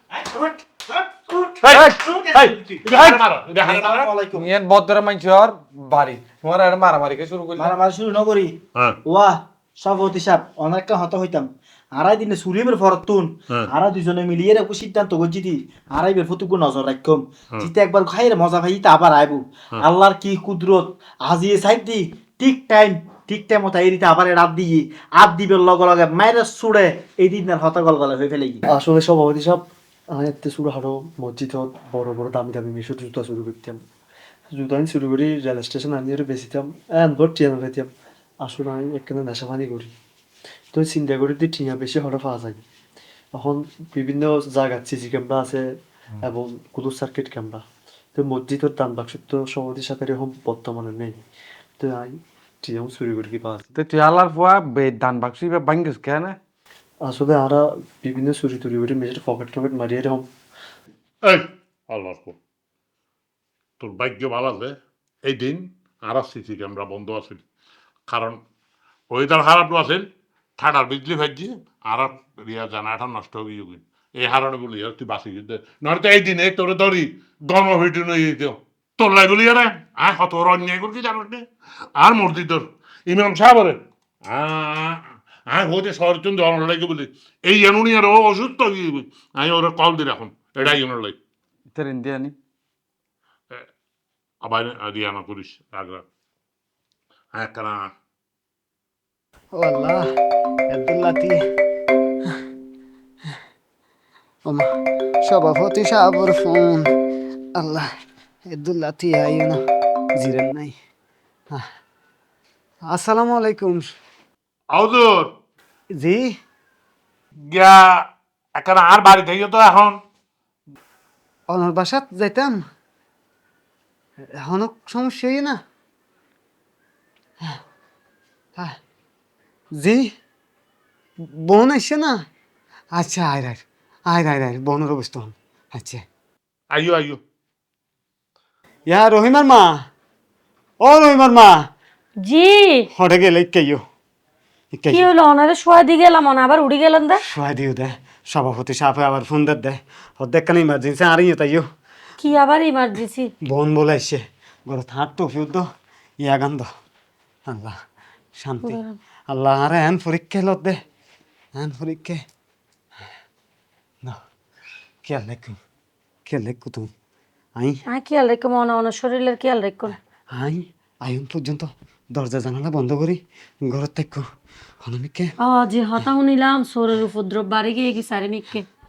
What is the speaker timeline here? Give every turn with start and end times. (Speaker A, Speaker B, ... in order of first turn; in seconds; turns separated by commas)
Speaker A: 0.2-4.5, Speaker B: 1.6-4.1, Speaker C: 4.3-7.7, Speaker A: 7.6-28.6, Speaker D: 28.7-33.8, Speaker D: 34.5-39.9, Speaker D: 40.7-42.6, Speaker D: 43.3-45.7, Speaker D: 46.2-47.6, Speaker D: 48.1-51.2, Speaker D: 51.8-53.7, Speaker C: 53.8-56.4, Speaker D: 57.0-60.3, Speaker B: 61.3-62.4, Speaker B: 63.8-67.4, Speaker B: 68.1-68.4, Speaker B: 69.1-70.0, Speaker B: 70.6-81.4, Speaker B: 82.0-91.2, Speaker C: 91.7-92.3, Speaker B: 94.4-96.0, Speaker B: 97.3-97.9, Speaker E: 99.5-100.1, Speaker E: 100.7-101.4, Speaker E: 105.2-106.9, Speaker E: 107.6-107.9, Speaker E: 108.5-109.6, Speaker E: 110.2-110.8, Speaker E: 112.9-113.9, Speaker B: 114.7-115.3, Speaker E: 116.0-116.3, Speaker B: 117.5-117.8, Speaker B: 118.6-120.0, Speaker E: 121.5-122.6, Speaker E: 124.4-125.6, Speaker E: 129.8-130.1, Speaker E: 131.2-132.2, Speaker E: 132.9-136.0, Speaker B: 136.7-137.2, Speaker E: 138.9-139.8, Speaker E: 140.8-141.7, Speaker F: 142.2-142.9, Speaker E: 142.9-143.8, Speaker E: 144.7-145.1, Speaker F: 144.9-147.2, Speaker E: 147.2-151.7, Speaker F: 152.2-153.3, Speaker E: 153.4-155.7, Speaker E: 156.2-156.7, Speaker E: 157.5-157.8, Speaker E: 158.4-160.8, Speaker F: 158.6-159.0, Speaker E: 161.6-162.2, Speaker E: 165.1-165.6, Speaker E: 166.3-166.9, Speaker F: 167.9-170.0, Speaker E: 170.3-174.2, Speaker E: 174.8-175.3, Speaker F: 175.4-178.7